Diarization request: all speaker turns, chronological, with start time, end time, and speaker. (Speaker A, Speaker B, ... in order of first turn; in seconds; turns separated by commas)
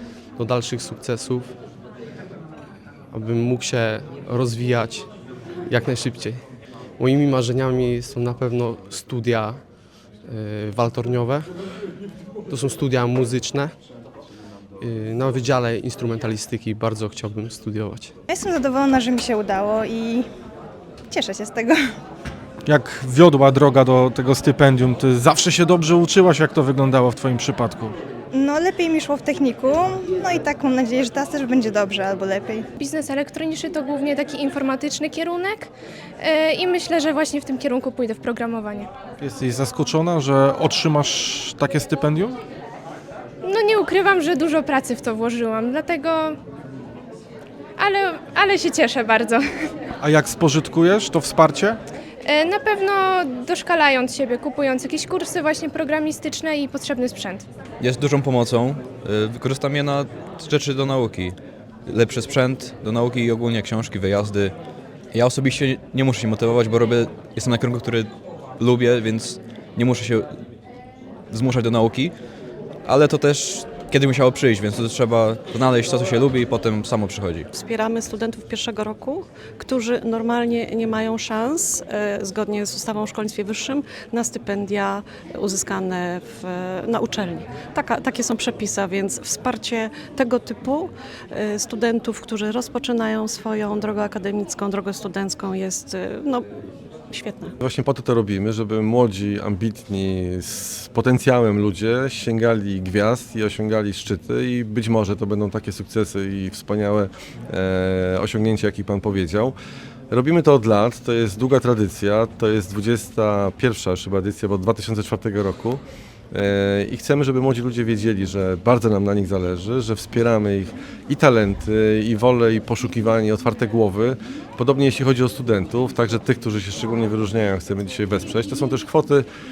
Speaker A: 0.4-1.6, Speaker A: 3.1-5.1, Speaker A: 5.7-6.4, Speaker A: 7.0-9.6, Speaker A: 10.2-11.5, Speaker A: 12.5-13.8, Speaker A: 14.8-18.1, Speaker B: 18.3-20.3, Speaker B: 21.1-21.9, Speaker C: 22.7-28.0, Speaker B: 28.3-32.7, Speaker D: 32.8-35.7, Speaker D: 36.2-38.9, Speaker C: 39.2-42.4, Speaker D: 43.4-46.4, Speaker D: 47.8-49.7, Speaker C: 50.0-51.8, Speaker D: 52.3-57.5, Speaker E: 57.8-61.4, Speaker E: 61.9-64.5, Speaker E: 65.1-70.3, Speaker E: 71.3-72.1, Speaker E: 72.8-77.5, Speaker F: 77.5-96.5, Speaker F: 97.1-97.5, Speaker G: 97.6-109.5, Speaker G: 110.1-129.3